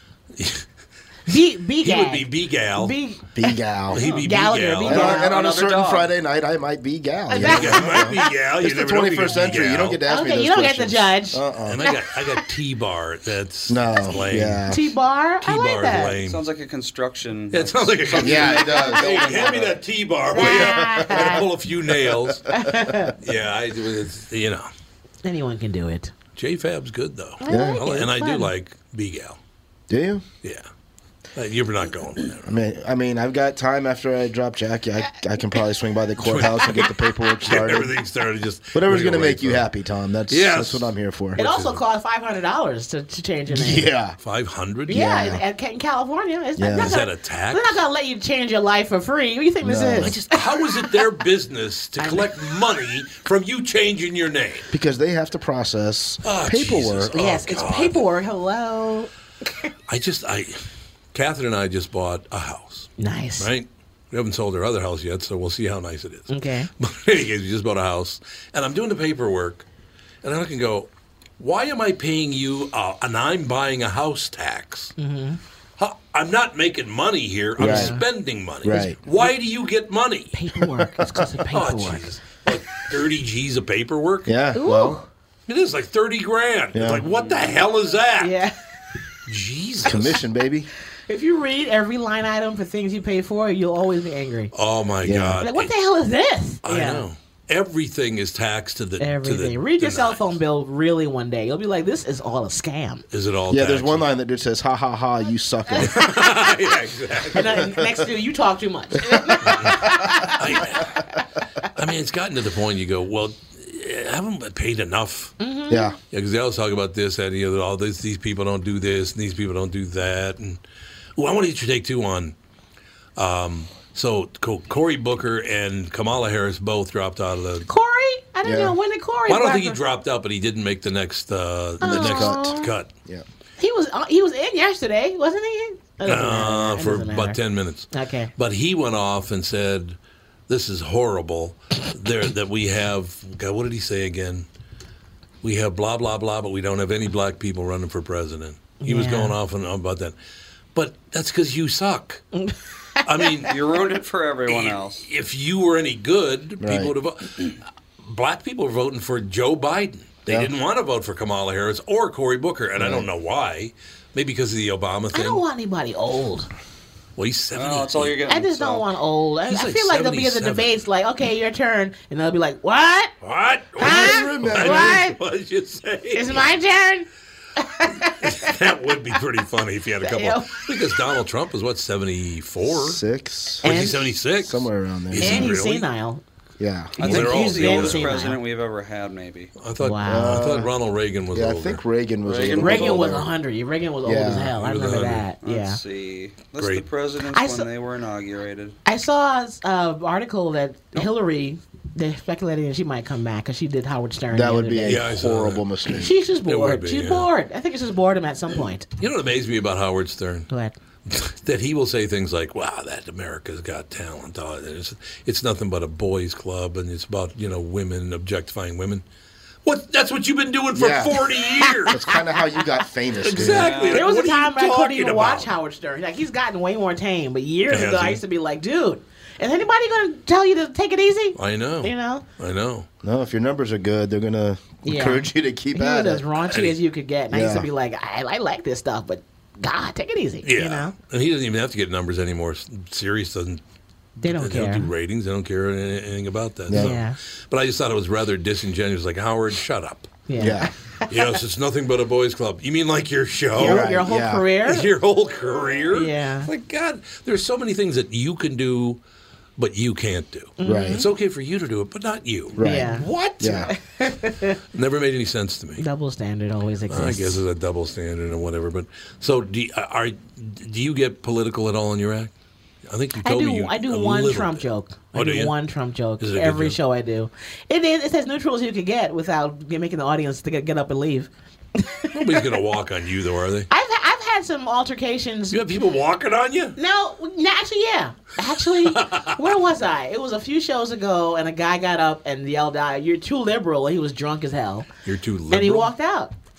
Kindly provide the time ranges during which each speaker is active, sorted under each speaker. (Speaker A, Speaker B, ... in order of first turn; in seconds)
Speaker A: 0.4-0.7, 1.8-2.9, 3.9-5.1, 7.3-10.0, 11.7-14.7, 15.4-16.4, 17.5-22.5, 23.2-24.7, 26.4-29.4, 31.4-32.6, 36.2-36.9, 37.4-39.7, 40.3-41.8, 44.2-45.0, 46.8-47.8, 50.0-54.7, 56.2-58.0, 59.9-60.6, 61.1-69.7, 70.2-74.9, 75.8-80.3, 81.5-84.3, 85.5-88.3, 89.3-90.2, 94.5-95.7, 96.7-100.3, 103.1-104.1, 105.8-107.6, 109.5-111.0, 111.8-115.4, 116.1-120.6, 121.2-122.3, 123.2-127.7, 129.3-132.9, 136.1-140.0, 140.5-144.5, 145.4-150.2, 150.8-152.2, 153.0-153.6, 154.5-165.4, 167.2-168.2, 169.5-170.7, 173.2-176.5, 178.2-183.0, 183.6-185.9, 187.0-188.2, 189.6-191.8, 194.6-195.3, 196.6-196.9, 204.8-205.7, 206.4-207.3, 209.0-210.5, 211.1-219.0, 219.7-222.0, 223.2-225.5, 227.7-228.2, 231.4-232.9, 236.5-236.8, 240.4-243.6, 244.3-250.1, 251.1-253.9, 254.6-259.0, 259.6-263.7, 264.7-265.8, 266.9-272.3, 272.9-275.5, 276.2-276.8, 282.1-283.7, 285.5-286.8, 288.9-289.4, 295.1-295.9
Speaker B: 1.3-3.3, 4.0-5.3, 7.3-8.3, 10.1-12.3, 14.7-16.2, 20.3-21.4, 22.5-23.1, 25.2-26.1, 27.4-28.5, 41.4-43.9, 44.9-50.9, 52.0-52.3, 57.1-59.1, 63.0-63.5, 66.3-66.7, 75.0-75.4, 77.6-78.0, 80.3-82.0, 84.5-85.1, 88.2-88.5, 91.1-94.5, 95.4-97.0, 99.0-103.0, 105.7-106.4, 107.3-111.1, 115.4-115.9, 127.7-129.8, 131.8-132.7, 133.6-137.4, 137.9-138.3, 148.8-149.3, 152.4-153.0, 165.1-166.5, 168.3-173.1, 173.8-175.2, 176.1-178.6, 180.0-180.7, 183.6-184.1, 185.2-186.2, 187.0-188.4, 189.8-190.4, 192.6-195.8, 197.3-197.7, 198.8-205.0, 205.9-208.9, 210.5-210.8, 223.9-232.2, 234.8-240.9, 244.2-244.9, 246.7-247.2, 250.3-251.1, 253.6-254.9, 255.9-256.5, 260.6-261.1, 262.6-263.1, 263.7-264.6, 265.8-267.4, 273.2-282.6, 283.7-285.6, 286.8-294.9, 295.5-296.3
Speaker C: 3.4-4.0, 4.8-11.8, 13.7-14.8, 18.1-19.5, 20.4-21.5, 22.1-22.7, 27.5-27.8, 29.9-30.2, 32.5-37.9, 38.7-41.4, 43.5-44.2, 44.9-45.4, 46.6-47.0, 49.6-50.2, 54.7-57.2, 77.6-78.0, 78.6-79.0, 84.3-85.0, 86.7-87.0, 89.8-90.7, 95.0-95.4, 103.5-106.1, 109.1-110.2, 115.7-116.0, 128.4-128.8, 131.8-133.2, 156.6-156.9, 162.8-163.1, 173.8-175.0, 182.7-183.8, 184.4-185.5, 186.6-187.1, 190.1-190.7, 191.3-193.3, 194.1-194.6, 204.3-206.2, 220.7-221.3, 221.9-223.8, 233.0-236.3, 237.3-237.7, 246.7-247.0, 250.4-250.7, 253.6-254.5, 260.6-261.1, 262.5-263.7
Speaker D: 4.9-6.1, 16.2-19.7, 87.0-87.5, 153.5-155.1, 167.5-168.9, 187.0-189.5, 192.2-193.1, 195.4-198.8, 223.4-224.1